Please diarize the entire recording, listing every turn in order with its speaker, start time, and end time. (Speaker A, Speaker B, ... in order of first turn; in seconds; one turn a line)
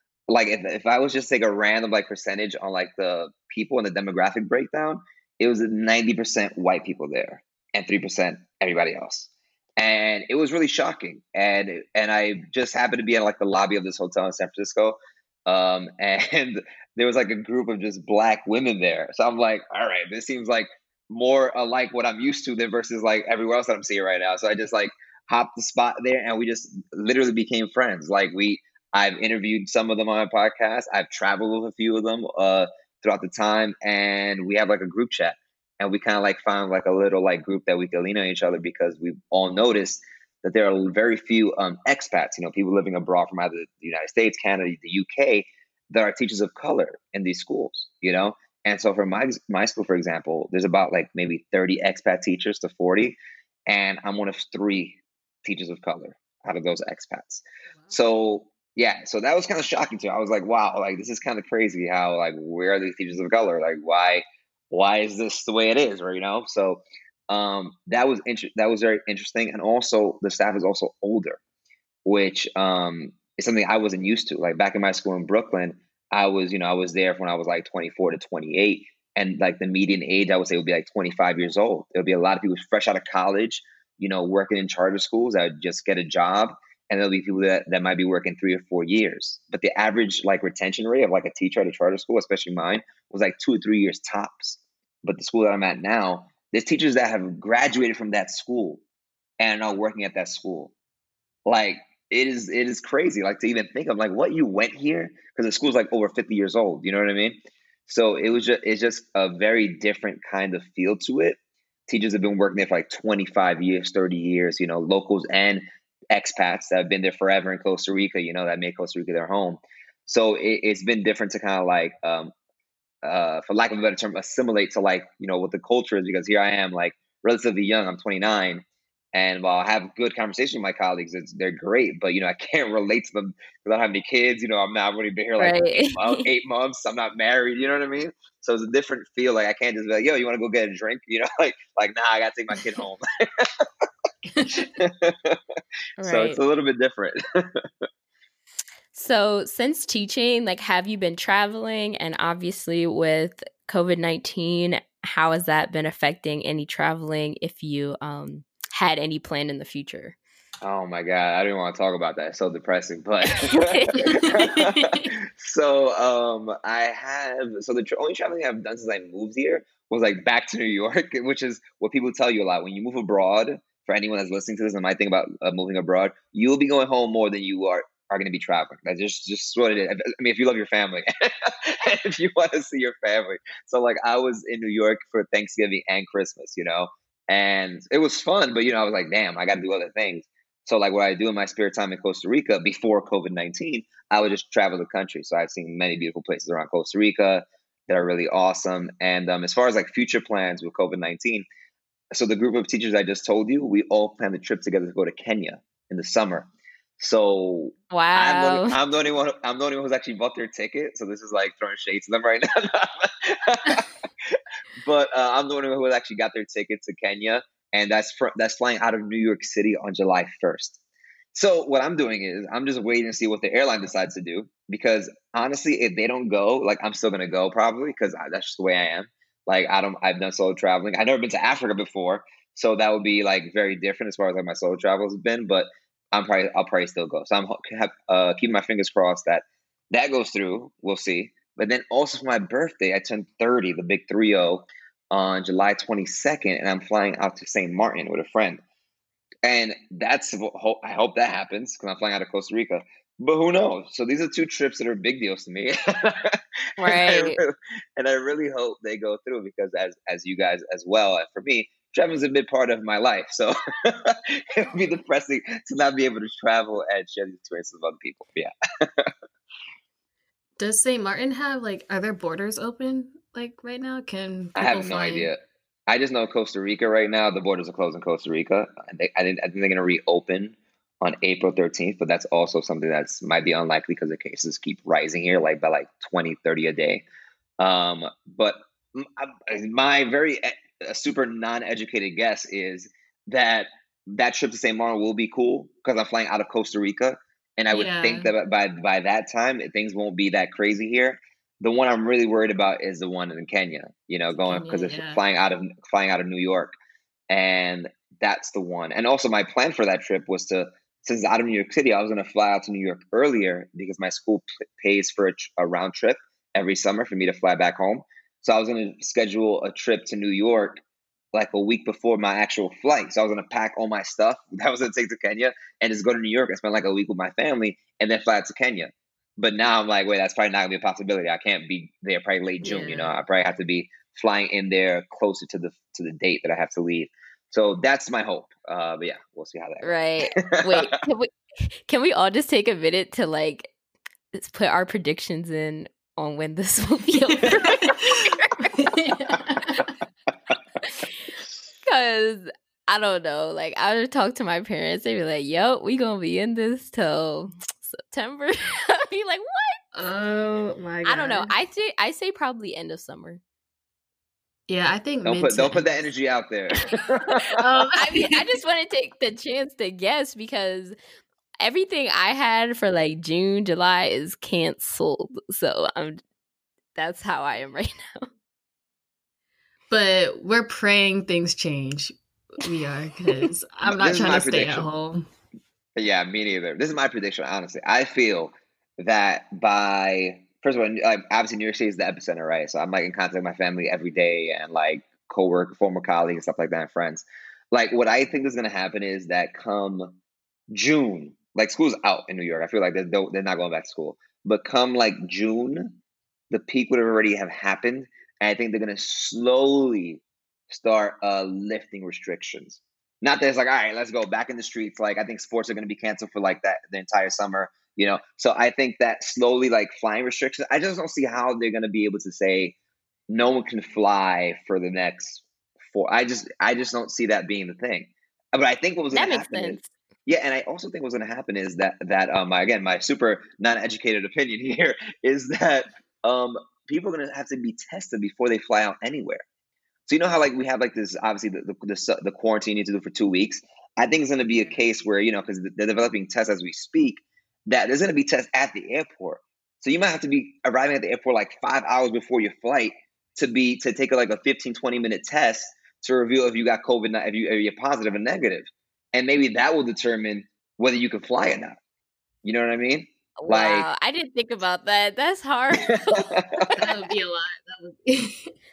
Speaker A: 0.3-71.4
Speaker A: 72.0-98.8
Speaker A: 99.4-100.7
Speaker A: 101.5-122.3
Speaker A: 123.0-143.9
Speaker B: 135.4-136.2
Speaker C: 144.3-144.7
Speaker A: 144.5-147.8
Speaker B: 146.0-146.4
Speaker B: 148.9-160.2
Speaker A: 160.6-201.5
Speaker B: 163.3-164.3
Speaker C: 164.7-165.0
Speaker A: 202.1-206.5
Speaker A: 207.0-220.8
Speaker B: 207.9-208.8
Speaker A: 221.3-248.6
Speaker A: 249.4-269.1
Speaker B: 256.8-257.4
Speaker C: 270.6-275.3
Speaker A: 274.6-287.0
Speaker A: 287.6-306.7
Speaker C: 297.7-298.3
Speaker C: 304.4-305.2
Speaker A: 307.3-320.8
Speaker A: 321.3-341.0
Speaker C: 332.6-333.2
Speaker B: 339.8-343.7
Speaker B: 344.3-349.8
Speaker C: 347.5-348.1
Speaker C: 348.8-349.9
Speaker B: 350.8-351.1
Speaker B: 351.9-359.9
Speaker C: 359.9-361.5
Speaker B: 361.1-363.4
Speaker C: 364.7-366.0
Speaker A: 365.2-367.6
Speaker C: 367.5-368.6
Speaker B: 368.0-370.9
Speaker B: 371.6-376.2
Speaker B: 377.0-378.3
Speaker C: 379.9-385.2
Speaker A: 383.8-384.9
Speaker A: 386.0-400.2
Speaker A: 400.7-406.0
Speaker A: 406.5-422.8
Speaker A: 423.3-439.4
Speaker B: 429.1-429.9
Speaker A: 440.1-461.8
Speaker A: 462.4-463.9
Speaker B: 463.4-466.4
Speaker A: 465.9-466.8
Speaker C: 466.7-468.5